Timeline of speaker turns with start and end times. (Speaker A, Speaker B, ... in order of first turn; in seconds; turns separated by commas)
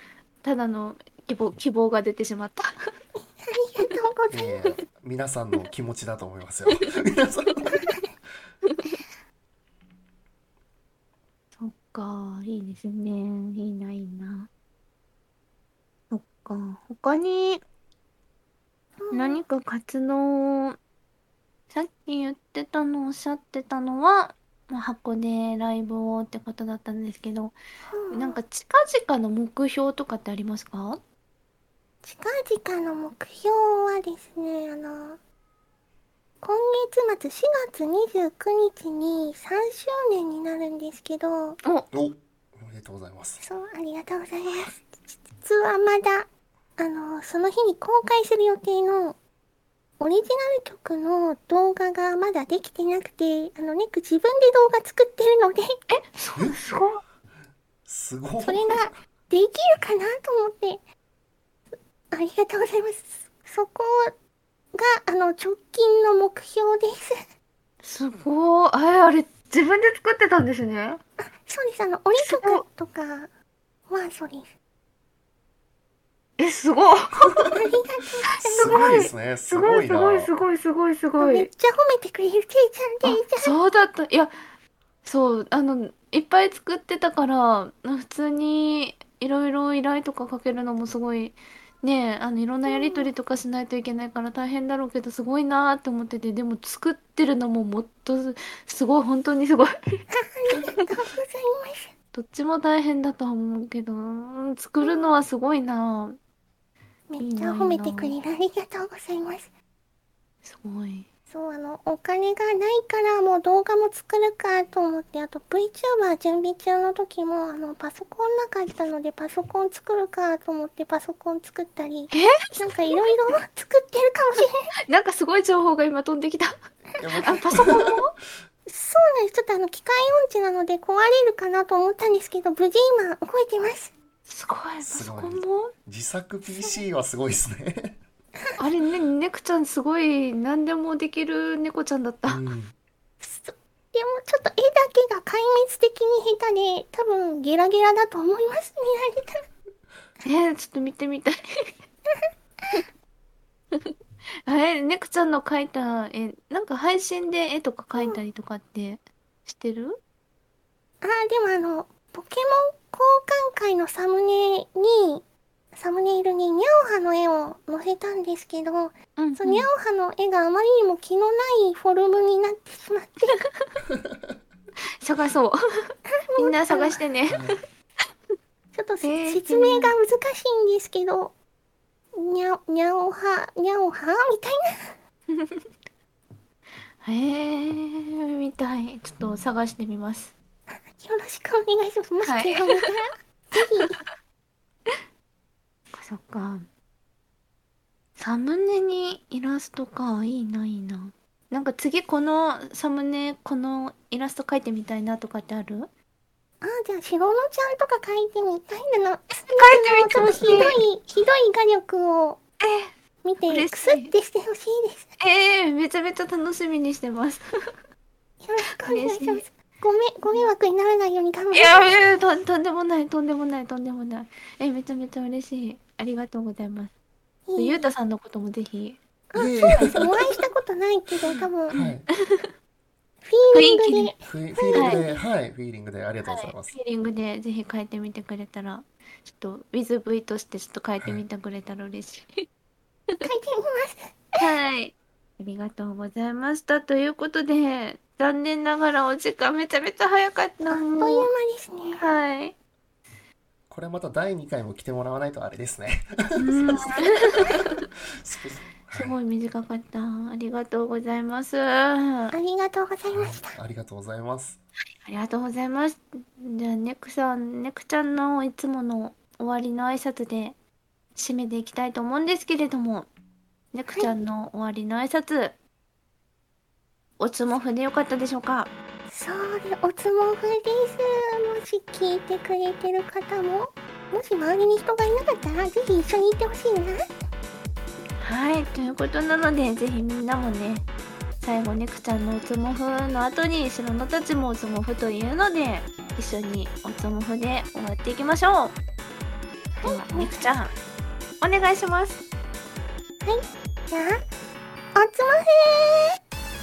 Speaker A: 0.4-2.7, Speaker B: 3.4-4.6, Speaker C: 4.3-7.9, Speaker A: 7.8-8.0, Speaker A: 8.6-9.0, Speaker A: 11.6-14.5, Speaker A: 16.1-17.6, Speaker B: 19.0-19.4, Speaker A: 19.1-20.8, Speaker A: 21.7-27.6, Speaker B: 27.8-28.4, Speaker A: 28.1-31.0, Speaker B: 32.0-35.2, Speaker B: 36.4-41.6, Speaker C: 41.9-43.4, Speaker B: 43.4-49.2, Speaker B: 50.0-55.7, Speaker A: 55.9-57.0, Speaker C: 56.4-56.6, Speaker C: 57.9-58.9, Speaker B: 58.4-60.8, Speaker B: 61.7-64.1, Speaker B: 64.7-67.2, Speaker A: 67.8-71.0, Speaker B: 71.4-73.3, Speaker A: 72.2-72.6, Speaker B: 73.9-74.5, Speaker A: 76.4-77.4, Speaker B: 77.4-79.0, Speaker A: 78.4-81.5, Speaker C: 78.4-80.3, Speaker B: 81.2-83.6, Speaker A: 83.0-84.3, Speaker A: 85.0-99.7, Speaker B: 92.7-93.1, Speaker B: 100.2-101.9, Speaker A: 100.5-100.9, Speaker A: 102.1-106.2, Speaker B: 104.8-105.1, Speaker B: 107.1-109.5, Speaker A: 107.2-108.2, Speaker A: 110.4-111.1, Speaker B: 111.3-124.6, Speaker A: 122.1-123.0, Speaker A: 124.9-126.5, Speaker C: 127.0-128.0, Speaker A: 127.2-128.1, Speaker B: 128.7-133.9, Speaker A: 134.2-135.7, Speaker C: 134.8-138.0, Speaker A: 138.6-142.4, Speaker C: 142.3-142.7, Speaker B: 143.2-149.4, Speaker A: 150.2-151.7, Speaker B: 152.2-152.8, Speaker A: 154.4-160.0, Speaker B: 161.0-173.4, Speaker A: 169.2-169.7, Speaker C: 173.9-174.2, Speaker A: 175.0-175.6, Speaker B: 176.1-177.0, Speaker A: 176.4-177.5, Speaker C: 177.3-177.6, Speaker B: 178.7-181.3, Speaker A: 179.0-179.9, Speaker B: 182.1-184.9, Speaker A: 185.3-185.7, Speaker A: 187.0-190.3, Speaker B: 190.9-194.0, Speaker A: 192.2-192.8, Speaker A: 195.9-196.7, Speaker A: 198.2-205.9, Speaker B: 206.6-212.4, Speaker A: 209.5-210.8, Speaker A: 212.6-212.9, Speaker B: 213.2-215.1, Speaker A: 213.5-214.1, Speaker A: 215.2-217.4, Speaker B: 218.4-222.0, Speaker A: 218.7-219.4, Speaker A: 220.2-220.5, Speaker A: 221.5-226.9, Speaker B: 227.4-227.9, Speaker A: 227.6-229.0, Speaker B: 229.3-231.8, Speaker C: 229.3-230.3, Speaker A: 229.7-230.4, Speaker A: 231.2-232.5, Speaker C: 231.7-232.0, Speaker B: 233.2-235.2, Speaker A: 233.5-234.1, Speaker C: 234.3-236.8, Speaker A: 234.7-235.0, Speaker A: 236.2-242.4, Speaker B: 243.2-244.4, Speaker A: 244.4-251.3, Speaker B: 250.7-252.0, Speaker A: 252.0-252.6, Speaker C: 253.7-257.6, Speaker A: 256.4-257.8, Speaker C: 258.2-259.2, Speaker A: 258.9-262.3, Speaker B: 262.3-263.5, Speaker C: 263.1-264.6, Speaker A: 265.0-270.6, Speaker A: 271.1-273.1, Speaker A: 273.7-275.6, Speaker B: 273.9-274.1, Speaker A: 277.2-278.7, Speaker B: 279.1-287.0, Speaker A: 288.2-290.9, Speaker A: 291.4-298.8, Speaker B: 299.8-300.8, Speaker A: 299.8-300.7, Speaker A: 301.4-302.2, Speaker B: 303.2-304.2, Speaker B: 304.9-306.1